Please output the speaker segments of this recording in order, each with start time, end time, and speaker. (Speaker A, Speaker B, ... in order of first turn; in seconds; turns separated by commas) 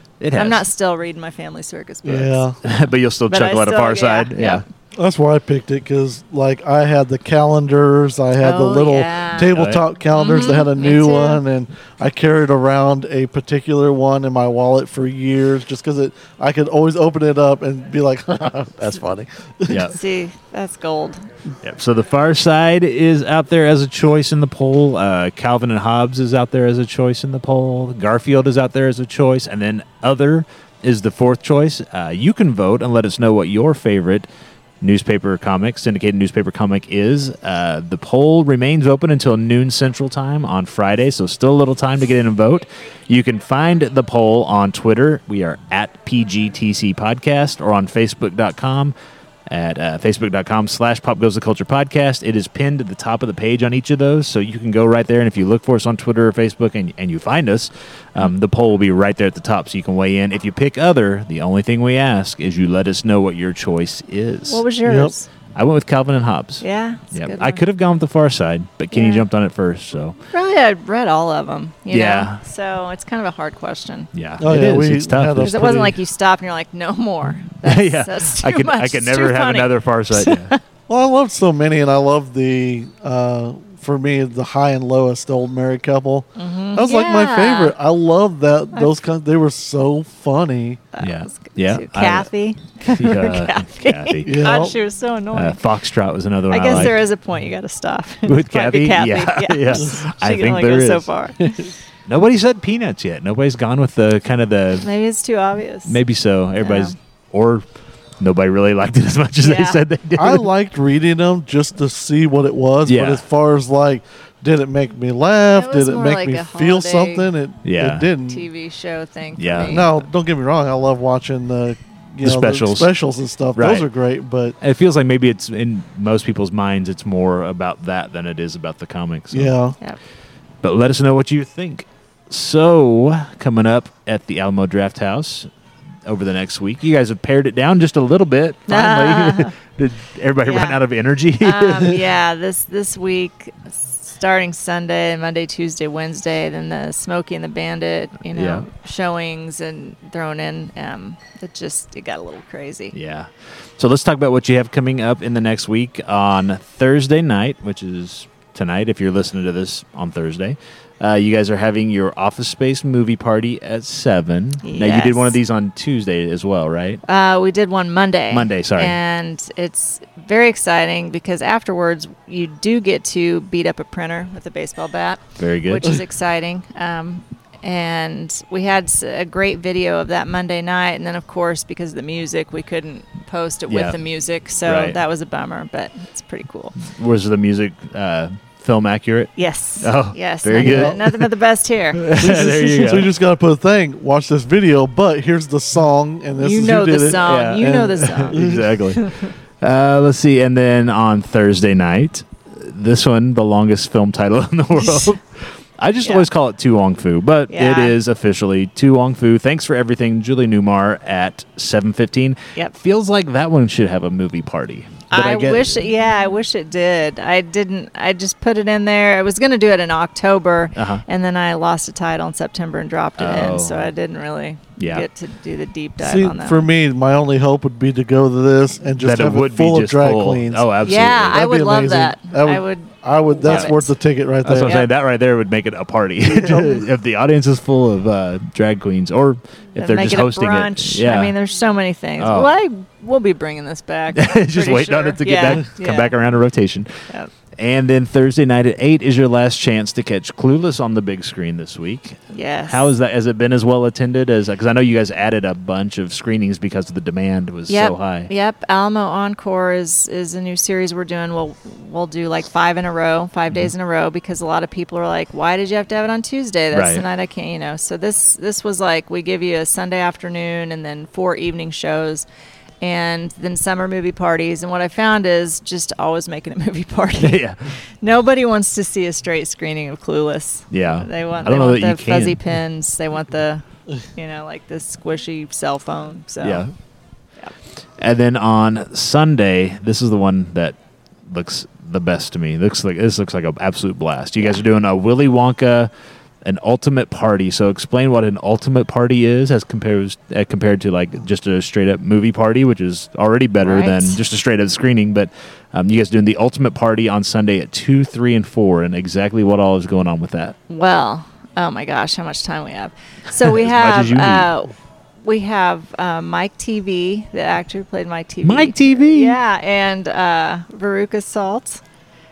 Speaker A: 0.2-0.6, Speaker B: 0.3-4.6, Speaker C: 2.0-2.6, Speaker A: 2.6-4.6, Speaker C: 4.9-19.9, Speaker B: 8.4-9.5, Speaker A: 9.5-9.8, Speaker B: 10.1-11.4, Speaker A: 19.7-20.0, Speaker B: 19.8-21.2, Speaker A: 21.6-34.3, Speaker A: 34.8-48.9, Speaker A: 49.5-64.6, Speaker B: 64.5-65.3, Speaker C: 64.8-65.1, Speaker A: 65.5-70.2, Speaker B: 66.6-67.6, Speaker B: 68.9-69.2, Speaker B: 70.3-74.1, Speaker A: 71.9-72.4, Speaker A: 74.1-75.6, Speaker C: 74.4-75.9, Speaker B: 75.4-80.6, Speaker A: 77.6-80.5, Speaker C: 80.9-90.8, Speaker B: 86.3-87.7, Speaker B: 90.9-95.6, Speaker A: 91.0-92.3, Speaker A: 92.9-94.3, Speaker C: 94.2-94.7, Speaker A: 95.3-97.0, Speaker B: 96.5-101.7, Speaker A: 98.2-101.1, Speaker A: 102.0-104.9, Speaker B: 104.8-106.0, Speaker A: 105.9-107.6, Speaker B: 106.6-106.9, Speaker A: 108.2-110.5, Speaker B: 109.4-109.8, Speaker C: 110.2-118.5, Speaker A: 112.8-113.2, Speaker B: 115.5-117.3, Speaker A: 117.6-118.1, Speaker B: 118.3-120.0, Speaker A: 119.4-119.8, Speaker C: 119.6-124.5, Speaker A: 122.2-122.9, Speaker A: 123.5-123.8, Speaker A: 124.6-129.5, Speaker C: 129.3-129.8, Speaker A: 130.6-135.5, Speaker A: 136.0-142.0, Speaker B: 138.7-139.5, Speaker B: 140.4-140.8, Speaker B: 141.4-152.9, Speaker A: 148.3-148.7, Speaker A: 152.9-167.0, Speaker B: 164.6-165.3, Speaker B: 167.1-186.7, Speaker A: 168.3-169.0, Speaker A: 175.4-176.0, Speaker A: 183.7-184.0, Speaker A: 184.6-185.0, Speaker A: 186.8-191.3, Speaker B: 189.3-192.1, Speaker C: 190.6-190.9, Speaker A: 191.9-193.1, Speaker C: 192.2-198.7, Speaker B: 196.4-199.3, Speaker A: 197.1-215.8, Speaker B: 204.8-205.1, Speaker B: 207.5-207.9, Speaker B: 215.1-226.7, Speaker A: 220.8-221.0, Speaker A: 223.2-223.9, Speaker A: 224.8-225.1, Speaker C: 226.0-230.7, Speaker A: 229.0-231.5, Speaker B: 230.8-233.9, Speaker C: 231.3-234.8, Speaker A: 233.4-233.7, Speaker A: 234.4-241.3, Speaker B: 234.6-234.9, Speaker C: 236.3-236.8, Speaker B: 239.8-246.1, Speaker A: 242.2-242.5, Speaker A: 244.2-258.3, Speaker B: 252.3-252.9, Speaker B: 257.7-272.2, Speaker A: 266.7-267.0, Speaker B: 272.8-286.6, Speaker A: 277.2-277.7, Speaker A: 280.7-282.4, Speaker A: 286.4-286.7, Speaker A: 288.0-290.8, Speaker A: 291.3-295.9, Speaker A: 296.4-310.6, Speaker B: 303.6-304.2, Speaker B: 310.7-321.8, Speaker A: 313.5-314.5, Speaker A: 318.4-319.4